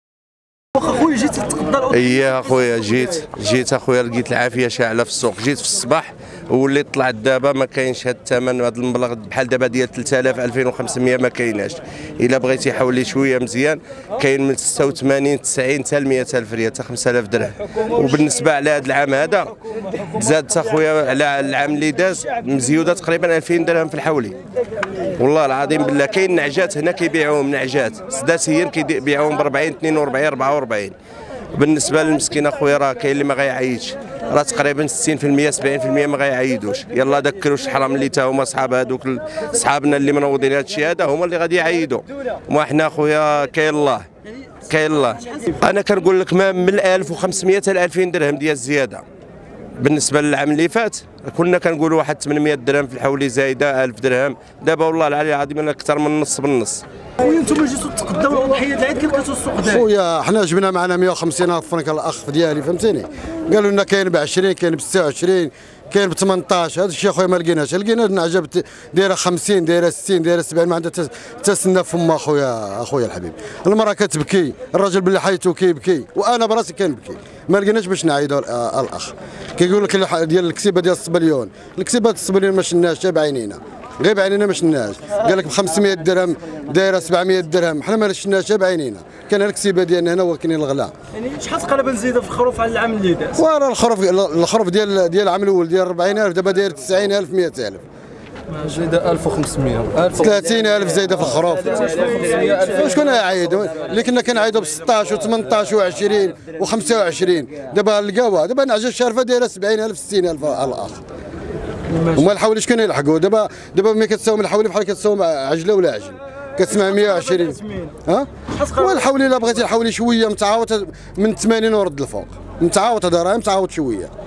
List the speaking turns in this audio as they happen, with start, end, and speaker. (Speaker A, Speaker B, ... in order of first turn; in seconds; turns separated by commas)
Speaker A: 0.8-3.1, Speaker B: 1.9-19.5, Speaker B: 20.1-24.4, Speaker B: 25.2-30.9, Speaker B: 31.5-44.1, Speaker B: 44.6-49.0, Speaker A: 45.1-45.4, Speaker B: 49.8-56.8, Speaker A: 57.2-59.8, Speaker C: 59.6-90.9, Speaker A: 91.1-93.3, Speaker C: 93.4-97.8, Speaker D: 98.5-103.2, Speaker C: 100.2-101.8, Speaker A: 101.7-102.9, Speaker C: 102.7-111.0, Speaker A: 111.9-112.2, Speaker C: 112.1-124.1, Speaker A: 116.7-117.9, Speaker A: 118.5-119.0